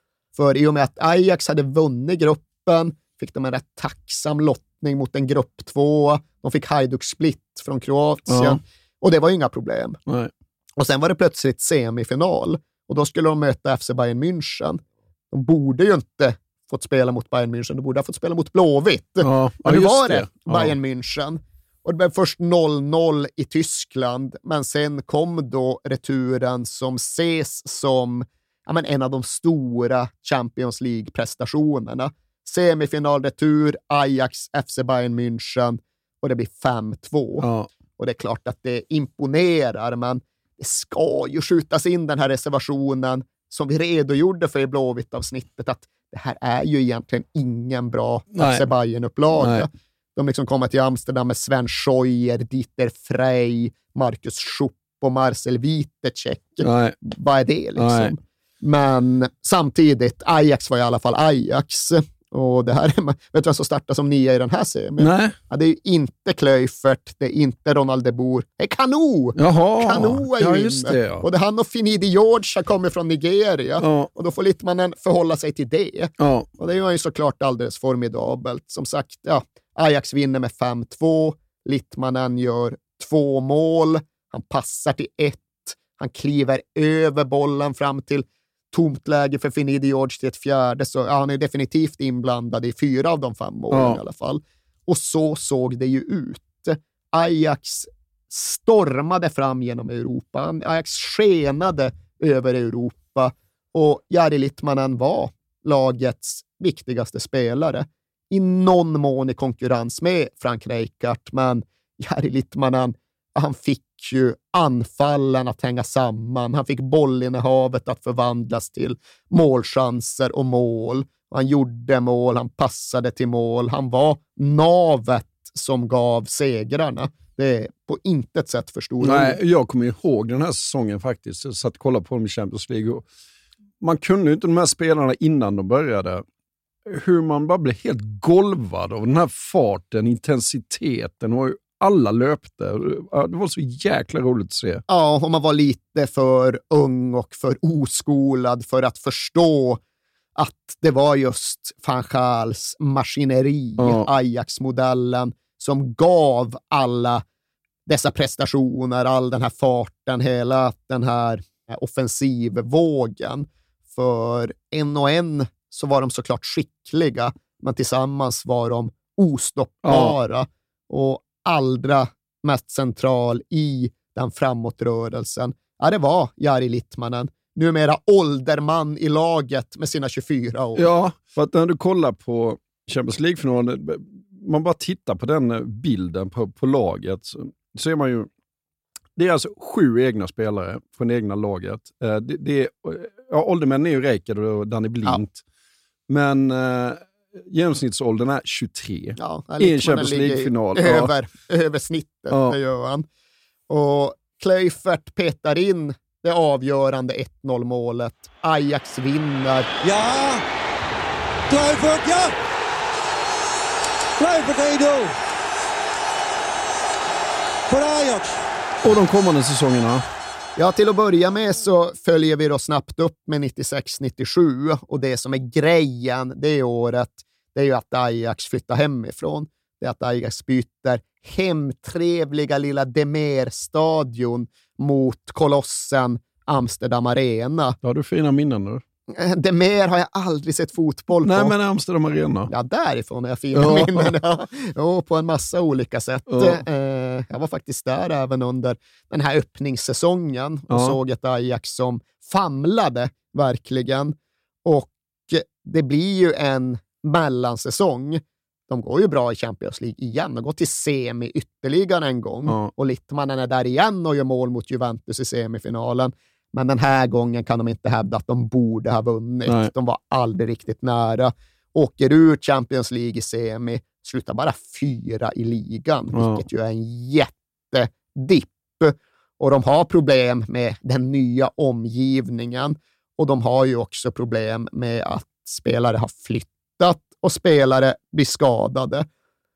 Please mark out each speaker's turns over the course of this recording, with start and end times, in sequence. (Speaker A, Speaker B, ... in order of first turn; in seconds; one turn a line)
Speaker A: 0.4-10.0
Speaker B: 8.3-8.6
Speaker A: 10.8-14.8
Speaker A: 15.3-37.5
Speaker B: 19.2-20.8
Speaker B: 37.4-37.7
Speaker A: 38.0-129.4
Speaker B: 48.3-48.7
Speaker B: 49.4-49.7
Speaker B: 56.6-57.0
Speaker B: 57.8-58.1
Speaker B: 65.0-65.3
Speaker B: 69.4-71.2
Speaker B: 73.8-74.1
Speaker B: 76.2-76.5
Speaker B: 93.7-94.0
Speaker B: 129.0-133.0
Speaker B: 133.8-136.2
Speaker B: 136.9-144.8
Speaker A: 144.9-149.8
Speaker A: 150.4-157.2
Speaker B: 153.8-154.1
Speaker A: 157.9-180.9
Speaker B: 169.8-170.2
Speaker B: 180.8-188.3
Speaker B: 189.2-195.4
Speaker B: 196.1-201.1
Speaker A: 199.2-203.1
Speaker B: 202.3-202.6
Speaker A: 203.7-209.7
Speaker C: 209.8-210.4
Speaker C: 211.5-212.3
Speaker C: 214.2-215.2
Speaker C: 217.7-218.4
Speaker B: 218.8-220.1
Speaker A: 220.6-237.8
Speaker B: 237.8-238.8
Speaker A: 239.1-241.5
Speaker B: 241.2-242.5
Speaker A: 242.5-289.1
Speaker B: 243.5-244.1
Speaker B: 246.3-246.6
Speaker B: 250.7-251.0
Speaker B: 276.1-276.4